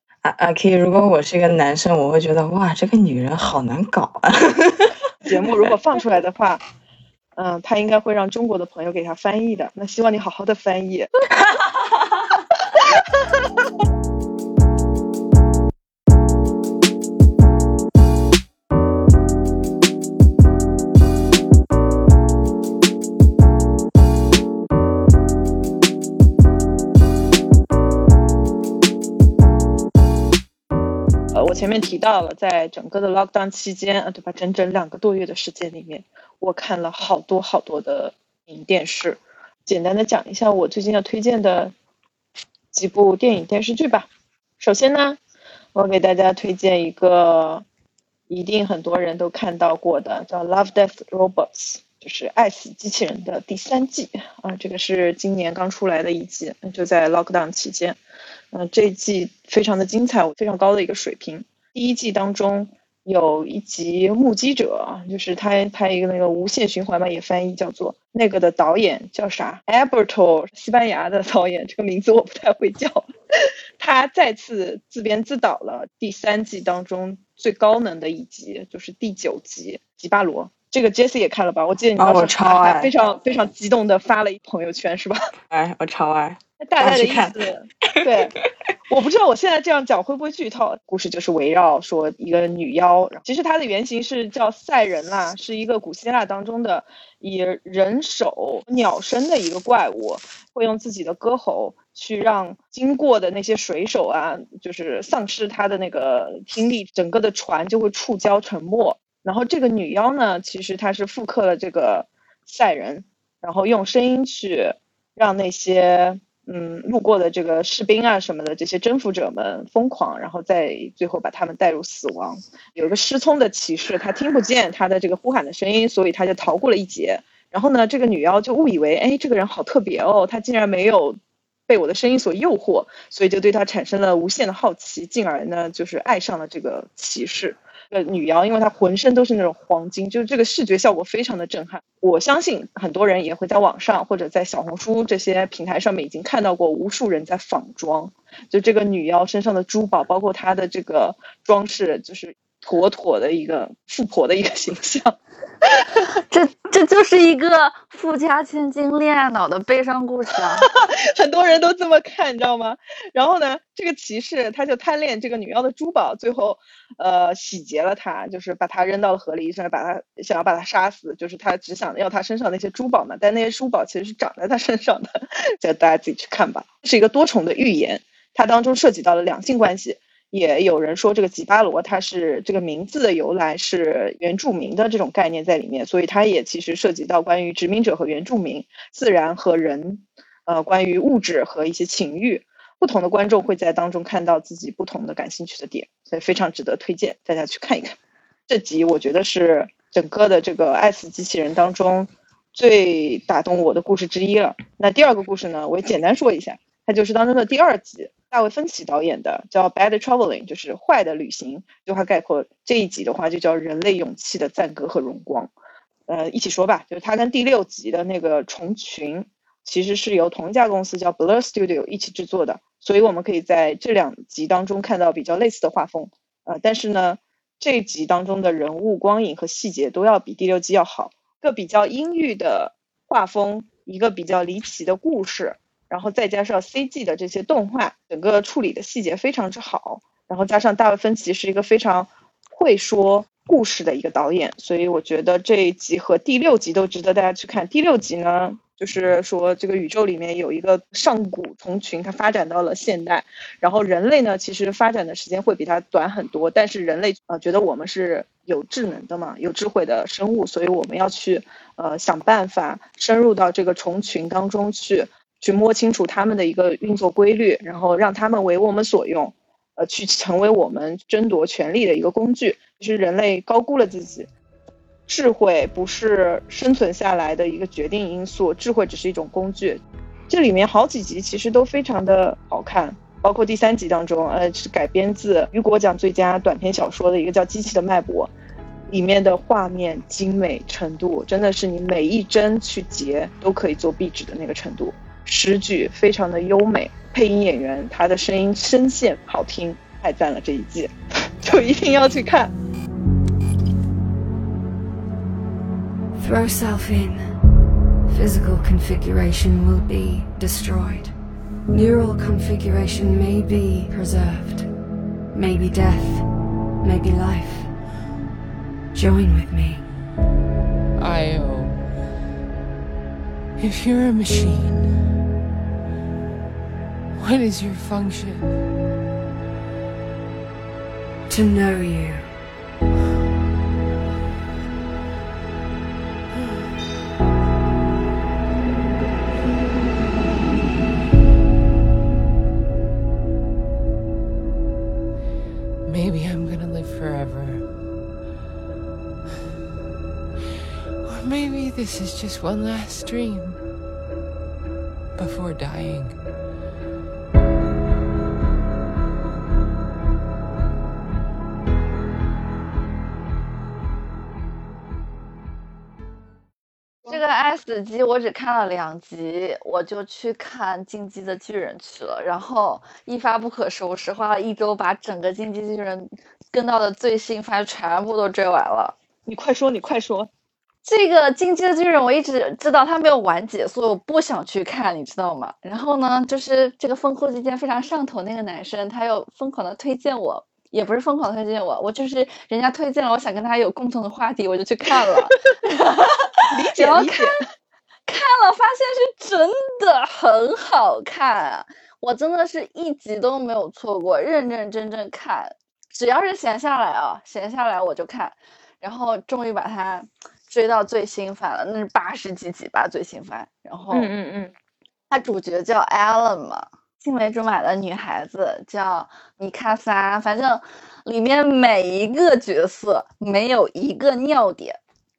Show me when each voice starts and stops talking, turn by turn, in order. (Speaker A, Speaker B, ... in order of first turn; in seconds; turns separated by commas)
Speaker A: 0.2-4.9, Speaker B: 5.2-6.6, Speaker B: 7.4-11.1, Speaker B: 12.8-13.0, Speaker B: 31.3-41.7, Speaker B: 42.7-44.1, Speaker B: 44.6-45.2, Speaker B: 45.8-47.6, Speaker B: 48.3-58.0, Speaker B: 58.5-73.1, Speaker B: 73.8-85.2, Speaker A: 82.0-82.9, Speaker A: 85.5-87.4, Speaker B: 86.6-88.4, Speaker A: 87.9-88.5, Speaker B: 88.9-156.1, Speaker C: 156.3-160.7, Speaker B: 160.7-198.0, Speaker B: 198.5-215.5, Speaker B: 216.1-274.3, Speaker B: 275.1-288.3, Speaker B: 288.9-302.5, Speaker D: 306.2-307.4, Speaker D: 308.1-311.2, Speaker D: 311.7-314.8, Speaker D: 315.3-317.7, Speaker D: 318.9-319.9, Speaker E: 321.0-321.9, Speaker E: 323.6-325.0, Speaker E: 327.1-328.6, Speaker D: 331.3-332.4, Speaker E: 345.9-347.7, Speaker E: 351.0-353.6, Speaker E: 355.1-356.2, Speaker C: 367.1-378.9, Speaker B: 379.3-380.3, Speaker C: 380.8-397.4, Speaker B: 396.5-397.4, Speaker C: 398.1-414.1, Speaker B: 413.9-414.5, Speaker C: 415.1-424.8